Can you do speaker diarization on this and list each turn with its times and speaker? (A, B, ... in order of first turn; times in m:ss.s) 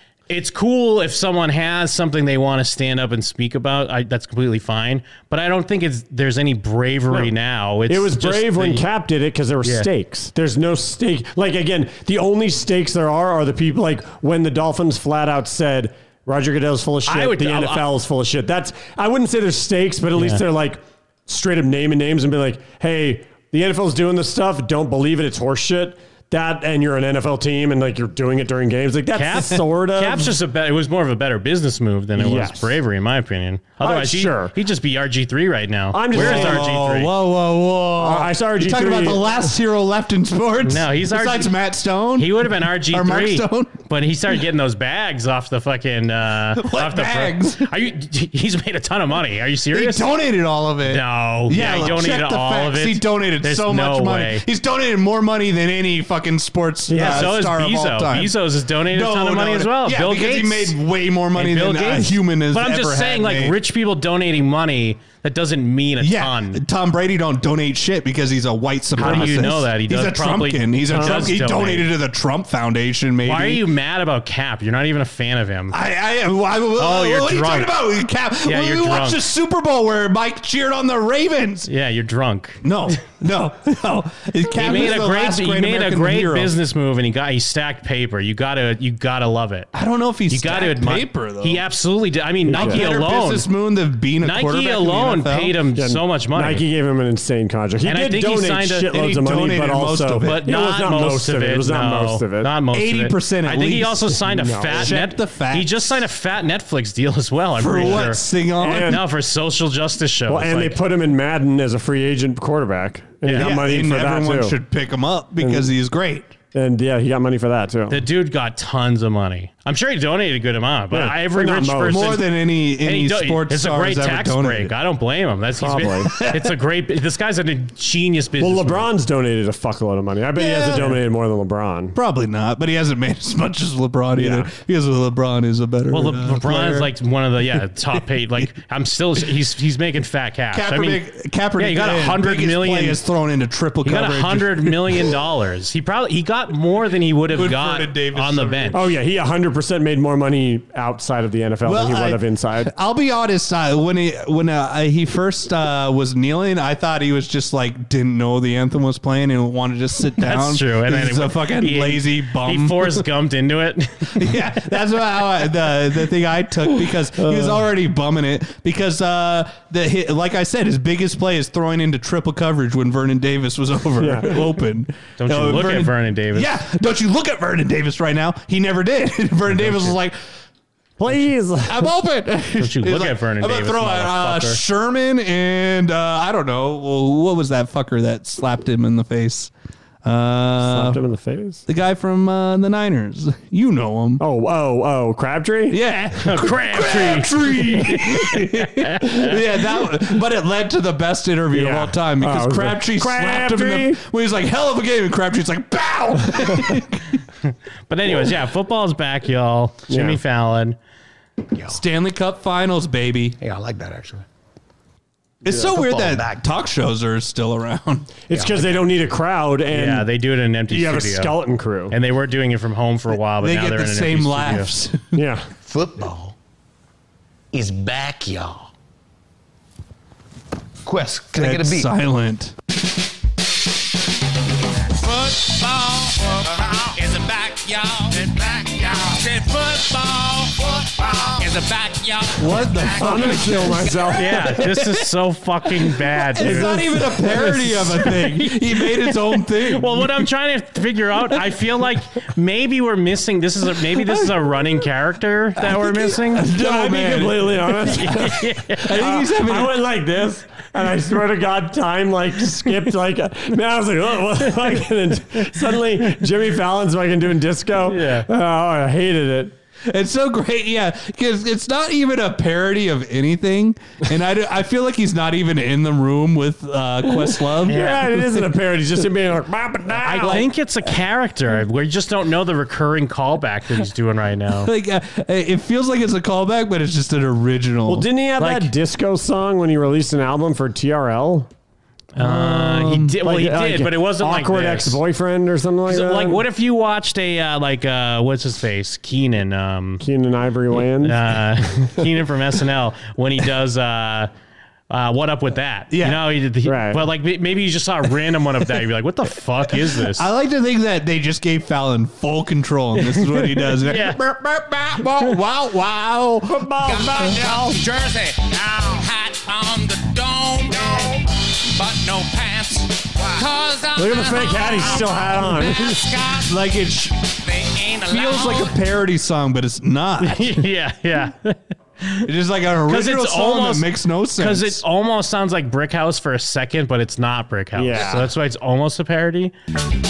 0:00.3-0:08.8 A
0:07.9-0:30.3 B
0:17.1-0:17.8 A
0:20.2-0:20.4 A
0:29.1-0:37.1 A
0:32.2-0:32.8 B
0:33.8-0:34.5 B
0:35.9-0:36.7 B
0:36.1-0:43.8 C
0:38.0-0:39.5 B
0:40.6-0:41.5 A
0:42.2-0:50.1 A
0:46.6-0:47.6 C
0:49.7-0:58.4 C
0:50.9-0:54.4 A
0:56.9-0:57.3 B
0:56.9-1:00.8 A
0:58.9-1:03.6 C
1:01.4-1:06.6 A
1:06.0-1:13.6 C
1:09.0-1:11.9 A
1:09.0-1:09.4 B
1:10.9-1:11.3 B
1:13.2-1:15.8 A
1:15.7-1:21.7 C
1:16.8-1:17.8 A
1:18.4-1:19.2 A
1:21.6-1:22.6 A
1:22.6-1:26.5 C
1:24.6-1:29.7 A
1:29.7-1:31.6 C
1:30.3-1:33.5 A
1:32.5-1:32.9 B
1:32.5-1:35.5 C
1:34.2-1:36.6 A
1:35.8-1:42.5 B
1:37.8-1:38.9 A
1:38.9-1:40.4 C
1:40.2-1:50.8 A
1:42.7-1:45.7 C
1:44.3-1:44.9 B
1:47.6-1:49.0 C
1:47.8-1:48.1 B
1:48.6-1:49.0 B
1:50.3-1:54.6 B
1:53.2-1:53.6 A
1:53.3-1:56.3 C
1:55.4-1:55.7 B
1:56.5-1:58.0 B
1:57.9-2:02.2 A
2:00.9-2:02.2 B
2:01.8-2:04.7 C
2:02.8-2:08.9 A
2:05.6-2:06.1 B
2:06.0-2:06.5 C
2:08.4-2:12.0 B
2:10.4-2:11.0 C
2:11.9-2:16.9 C
2:14.2-2:14.5 B
2:15.9-2:21.0 A
2:20.5-2:25.1 C
2:21.6-2:23.0 A
2:23.8-2:28.8 A
2:27.3-2:28.8 C
2:28.7-2:32.7 B
2:31.6-2:43.0 C
2:40.2-2:44.3 A
2:44.2-3:00.1 C
2:47.2-2:47.6 B
2:54.0-2:54.4 B
2:55.2-2:56.6 A
3:01.0-3:01.9 B
3:01.7-3:09.5 C
3:02.6-3:04.6 A
3:10.0-3:11.0 C
3:10.6-3:11.6 B
3:11.7-3:14.2 C
3:14.2-3:15.8 B
3:15.7-3:27.2 C
3:16.2-3:19.3 A
3:21.5-3:24.0 B
3:27.9-3:30.8 A
3:29.9-3:30.2 B
3:31.7-3:33.4 C
3:33.4-3:34.2 D
3:35.4-3:38.1 C
3:35.6-3:36.4 D
3:38.3-3:40.1 B
3:39.7-3:41.3 A
3:40.7-3:41.9 B
3:41.9-3:44.7 A
3:43.4-3:45.2 C
3:45.1-3:45.4 B
3:45.6-3:46.3 D
3:47.5-3:48.6 D
3:50.8-3:51.8 D
3:51.3-3:52.5 C
3:54.9-4:03.4 E
4:02.4-4:05.0 C
4:03.0-4:04.4 B
4:04.1-4:06.8 A
4:06.3-4:10.2 C
4:06.4-4:07.5 B
4:07.4-4:16.5 A
4:13.8-4:14.3 C
4:15.6-4:17.7 C
4:16.5-4:29.5 B
4:17.9-4:19.0 A
4:18.8-4:19.8 C
4:27.9-4:28.3 A
4:29.9-4:37.8 C
4:37.6-4:40.4 B
4:37.7-4:38.1 A
4:40.0-4:44.7 A
4:44.6-4:48.0 C
4:47.9-4:51.5 B
4:48.4-4:48.7 A
4:52.2-4:53.2 C
4:52.2-4:55.0 A
4:53.2-4:56.4 B
4:55.9-5:00.0 A
5:00.0-5:01.9 B
5:01.0-5:04.3 A
5:04.9-5:10.3 A
5:05.9-5:06.2 C
5:06.6-5:07.0 B
5:10.1-5:16.7 C
5:13.4-5:14.2 A
5:16.5-5:17.8 B
5:16.8-5:26.5 E
5:24.0-5:26.0 B
5:26.4-5:27.2 C
5:27.4-5:28.8 E
5:28.1-5:30.6 C
5:30.2-5:32.2 A
5:32.2-5:34.8 C
5:32.9-5:39.5 A
5:37.8-5:38.3 B